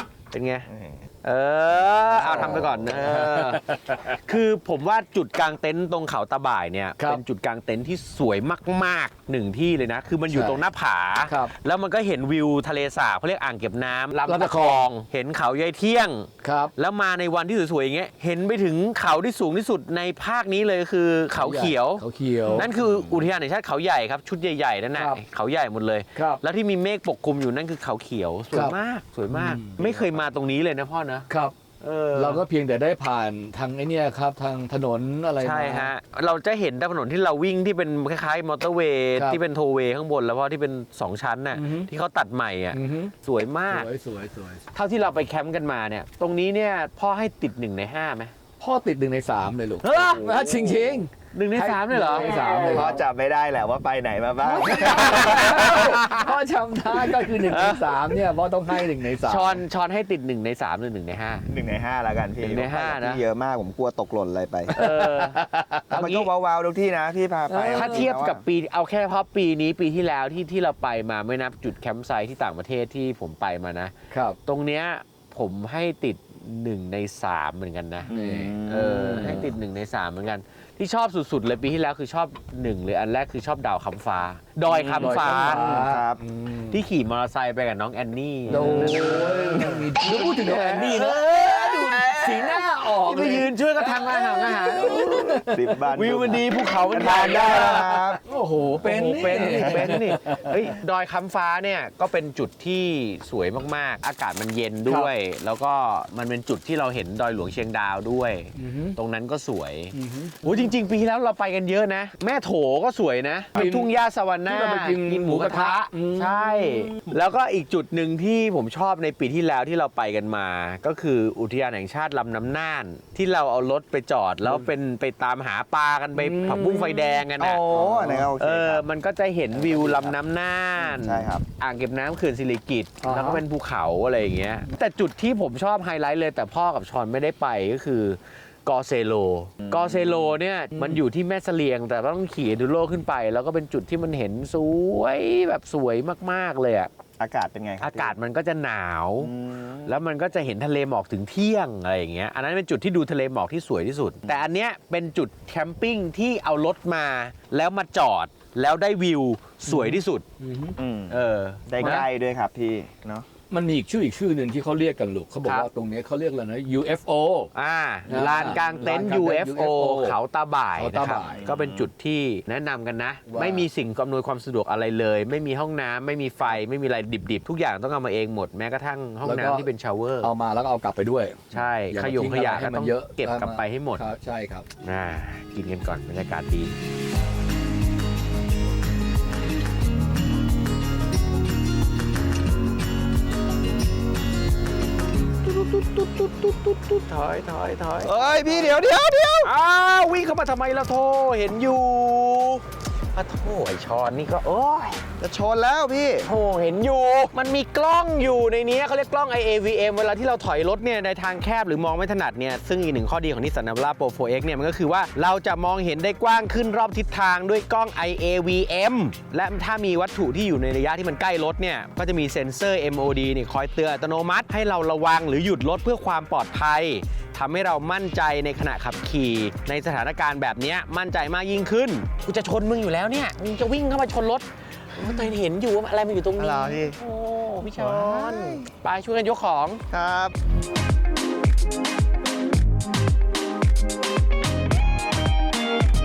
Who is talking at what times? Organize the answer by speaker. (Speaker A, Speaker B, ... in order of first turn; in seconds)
Speaker A: 0.3-0.7, 1.2-31.3, 31.8-32.4, 35.4-43.9, 44.7-48.3, 49.8-50.5, 51.3-52.4, 54.9-56.4, 56.9-58.2, 58.7-61.5, 62.4-63.2, 64.7-66.3, 67.7-73.9, 74.4-78.1, 78.7-85.7, 86.7-98.2, 98.8-127.6, 128.4-146.9, 147.8-149.3, 149.8-160.2, 161.1-162.1, 167.5-180.3, 181.5-184.0, 184.8-186.7, 195.4-198.8, 199.4-202.6, 203.1-205.0, 206.2-239.8
Speaker B: 0.7-1.0, 2.1-3.0, 52.7-55.9, 61.5-64.7, 65.9-68.4, 78.0-79.4, 84.9-86.2, 88.5-88.8, 95.4-98.2, 99.3-100.0, 127.4-128.9, 130.8-131.4, 139.6-140.3, 147.2-148.2, 149.2-150.0, 160.8-163.2, 171.3-171.9, 198.0-199.5, 205.2-206.2, 236.4-237.0, 237.6-238.7, 239.9-240.3
Speaker C: 2.4-4.0, 10.3-10.6, 11.2-11.5, 14.2-14.9, 16.4-16.7, 21.3-23.2, 24.9-25.2, 29.3-30.2, 31.3-31.6, 32.1-35.9, 41.5-41.9, 42.7-43.1, 43.7-44.6, 48.6-53.0, 54.4-59.6, 64.7-65.3, 67.5-68.1, 74.1-74.4, 78.1-79.4, 84.7-86.8, 88.5-95.8, 97.3-100.6, 108.5-109.0, 109.9-110.5, 113.5-113.9, 114.5-117.1, 126.1-128.3, 129.7-130.0, 133.0-133.4, 140.7-141.0, 159.7-160.8, 163.5-167.5, 168.1-170.2, 170.7-171.4, 173.3-173.6, 179.2-179.7, 180.2-184.7